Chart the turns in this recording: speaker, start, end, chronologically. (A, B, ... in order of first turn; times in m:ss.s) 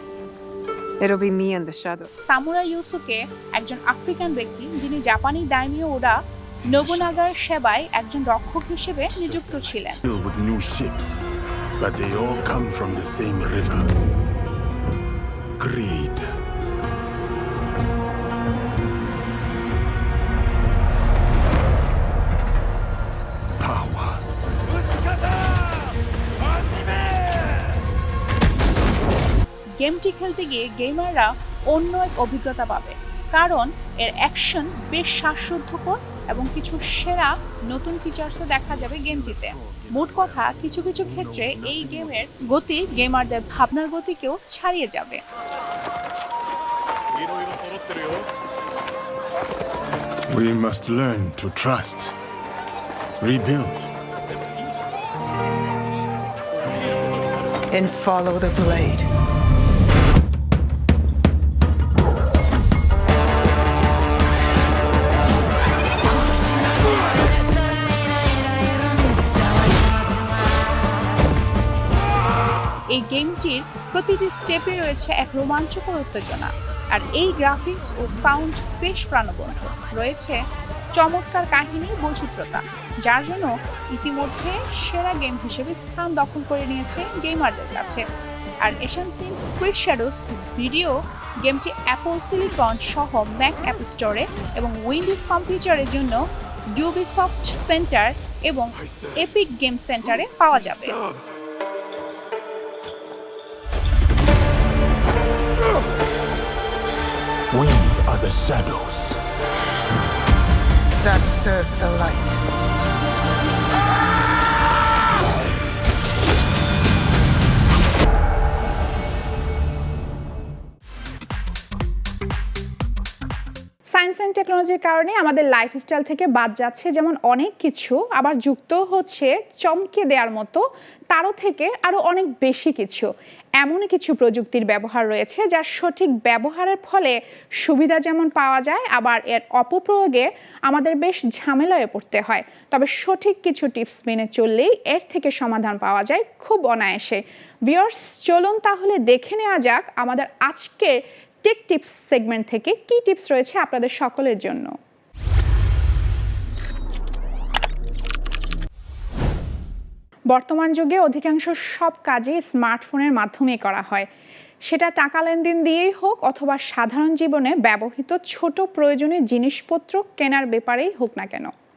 0:01.0-0:02.1 A
0:02.2-0:10.0 B
0:06.6-0:07.4 C
0:09.1-0:11.2 C
0:11.8-0:13.9 C
0:15.6-0:16.4 C
0:23.6-0:24.2 C
0:29.8-0:45.2 B
0:38.7-0:42.5 C
0:50.3-0:52.1 C
0:53.2-0:53.9 C
0:57.7-0:59.1 A
1:12.9-1:20.4 B
1:20.9-1:28.0 B
1:28.6-1:36.2 B
1:36.7-1:41.0 B
1:47.5-1:49.2 C
1:51.0-1:52.4 A
2:03.9-2:13.1 B
2:13.6-2:34.7 B
2:40.3-2:44.1 B
2:44.6-2:51.5 B